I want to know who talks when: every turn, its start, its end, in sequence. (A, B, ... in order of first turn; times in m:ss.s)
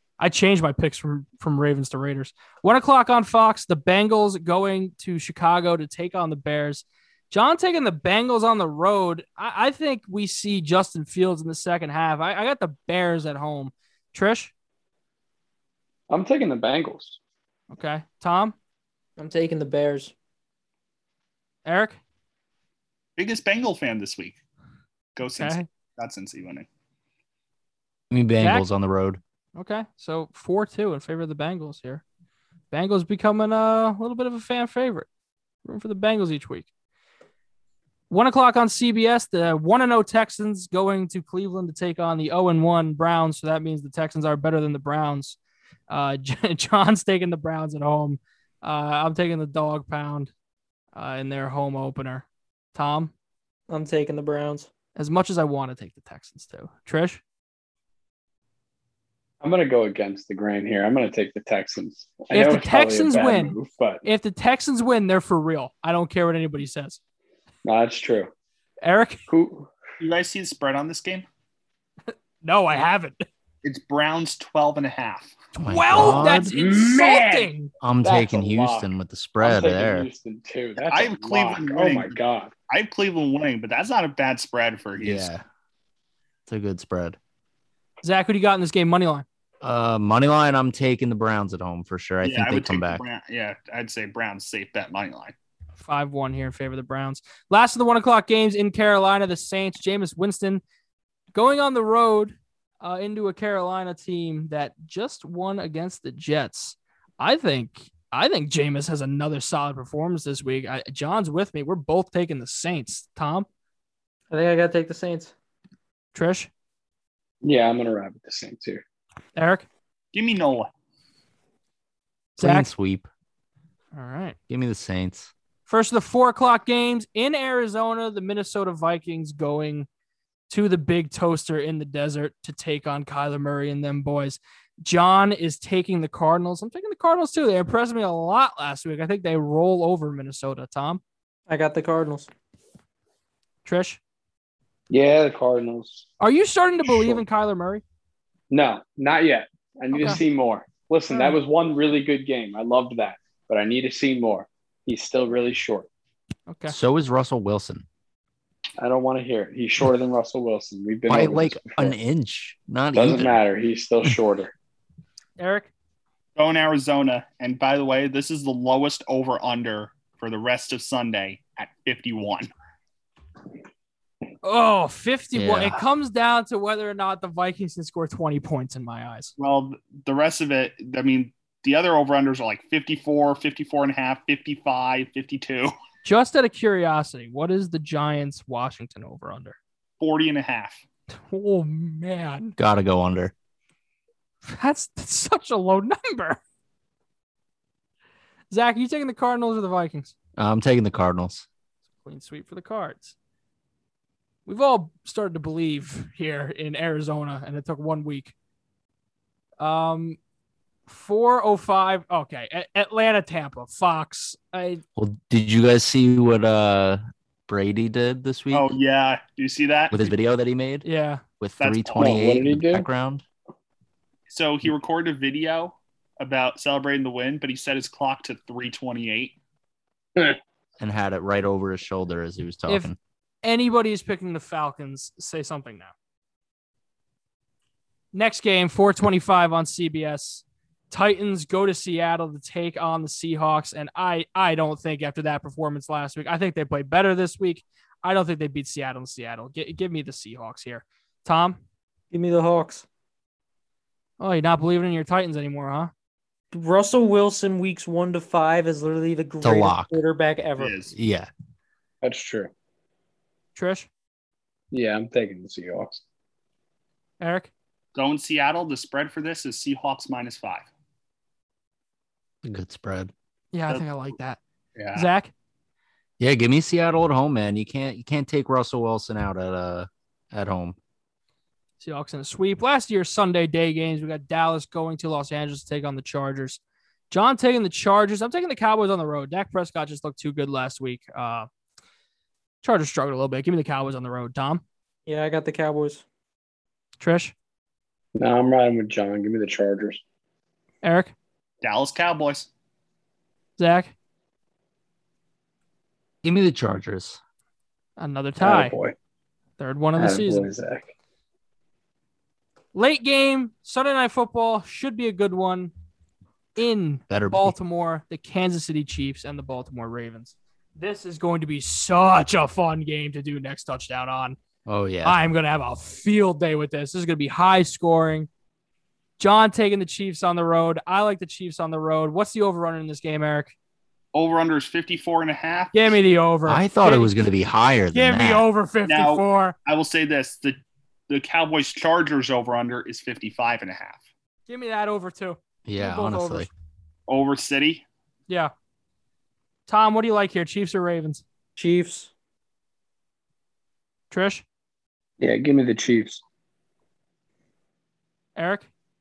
0:00.2-0:14.5 A
0:16.1-0:17.2 B
0:17.7-0:18.6 A
0:19.2-0:20.1 C
0:21.6-0:22.0 A
0:23.2-0:24.4 D
0:25.2-0:26.7 D
0:25.4-0:25.7 A
0:28.1-0:29.2 E
0:28.4-0:28.7 A
0:29.6-0:32.0 A
0:32.7-0:35.1 A
0:35.6-0:36.7 A
0:38.1-0:45.4 A
0:45.9-0:50.3 A
0:51.0-0:53.1 A
0:53.7-0:54.7 C
0:55.0-0:57.2 A
0:59.4-1:04.0 B
1:02.3-1:07.0 A
1:07.6-1:08.3 B
1:08.8-1:09.2 A
1:09.3-1:09.7 B
1:10.0-1:11.3 D
1:12.4-1:13.2 A
1:13.6-1:15.4 D
1:15.6-1:16.5 E
1:15.6-1:17.7 A
1:16.0-1:17.5 B
1:17.8-1:20.1 E
1:18.0-1:18.9 B
1:19.4-1:22.5 B
1:20.8-1:22.2 D
1:22.7-1:25.3 D
1:25.0-1:25.4 E
1:26.5-1:27.2 E
1:28.0-1:29.3 A
1:29.6-1:33.0 E
1:32.2-1:35.3 D
1:35.8-1:40.6 A
1:41.3-1:53.5 A
1:54.3-1:55.3 C
1:56.1-1:56.5 A
1:57.4-1:58.8 B
1:59.4-1:59.7 A
2:00.1-2:00.7 D
2:02.4-2:02.7 A
2:02.4-2:03.1 E
2:03.9-2:04.4 A
2:04.5-2:05.3 E
2:05.7-2:09.9 A
2:10.5-2:21.0 A
2:21.5-2:22.3 C
2:23.6-2:24.0 A
2:24.9-2:26.1 B
2:26.2-2:27.8 A
2:26.8-2:27.2 B
2:28.5-2:35.9 B
2:29.9-2:30.2 A
2:36.5-2:36.8 A
2:36.7-2:37.9 E
2:38.8-2:42.0 B
2:41.1-2:43.4 E
2:42.9-2:44.5 B
2:45.4-2:45.7 A
2:46.4-2:52.5 D
2:54.4-2:59.3 A
2:55.3-2:55.8 E
2:59.4-3:05.7 D
3:06.0-3:09.6 A
3:10.0-3:10.8 D
3:11.3-3:12.6 A
3:12.6-3:13.3 E
3:14.4-3:16.4 A
3:18.5-3:20.1 A
3:20.4-3:21.5 E
3:22.0-3:23.2 A
3:24.5-3:28.3 A
3:29.6-3:30.2 A
3:30.9-3:34.8 A
3:35.0-3:38.8 E
3:38.5-3:40.1 D
3:39.9-3:40.8 E
3:40.8-3:41.2 A
3:41.4-3:43.2 E
3:41.6-3:42.1 D
3:42.0-3:42.9 B
3:44.3-3:49.4 D
3:50.8-3:53.0 E
3:53.4-3:55.9 A
3:58.1-4:11.6 A
4:12.1-4:12.9 C
4:14.2-4:15.9 A
4:16.5-4:20.8 C
4:19.4-4:20.0 E
4:20.6-4:20.9 D
4:20.9-4:21.3 E
4:22.0-4:22.5 B
4:23.6-4:23.9 A
4:24.7-4:26.0 B
4:27.2-4:27.5 A
4:28.0-4:30.7 D
4:32.4-4:33.1 E
4:33.5-4:34.4 A
4:34.8-4:35.1 D
4:35.0-4:35.3 A
4:36.2-4:40.8 E
4:41.8-4:51.5 A
4:52.6-4:54.6 A
4:55.1-4:56.0 C
4:57.0-4:57.3 A
4:58.2-5:00.0 B
5:00.8-5:01.1 A
5:01.6-5:02.5 D
5:03.6-5:03.9 A
5:06.2-5:07.2 E
5:08.0-5:08.8 A
5:08.4-5:09.0 B
5:09.6-5:10.5 A
5:10.0-5:10.9 B
5:12.7-5:15.7 A
5:16.6-5:24.4 A
5:17.1-5:17.6 E
5:24.7-5:25.2 E
5:25.0-5:28.3 A
5:29.2-5:33.5 A
5:34.1-5:36.0 D
5:35.7-5:37.1 A
5:36.5-5:38.5 E
5:37.9-5:39.6 A
5:38.9-5:44.0 D
5:44.5-5:46.5 A
5:45.6-5:46.5 E
5:47.1-5:47.8 D
5:49.7-5:51.2 A
5:51.6-5:52.1 C
5:54.1-5:54.4 A
5:55.2-5:56.2 B
5:58.4-5:58.7 A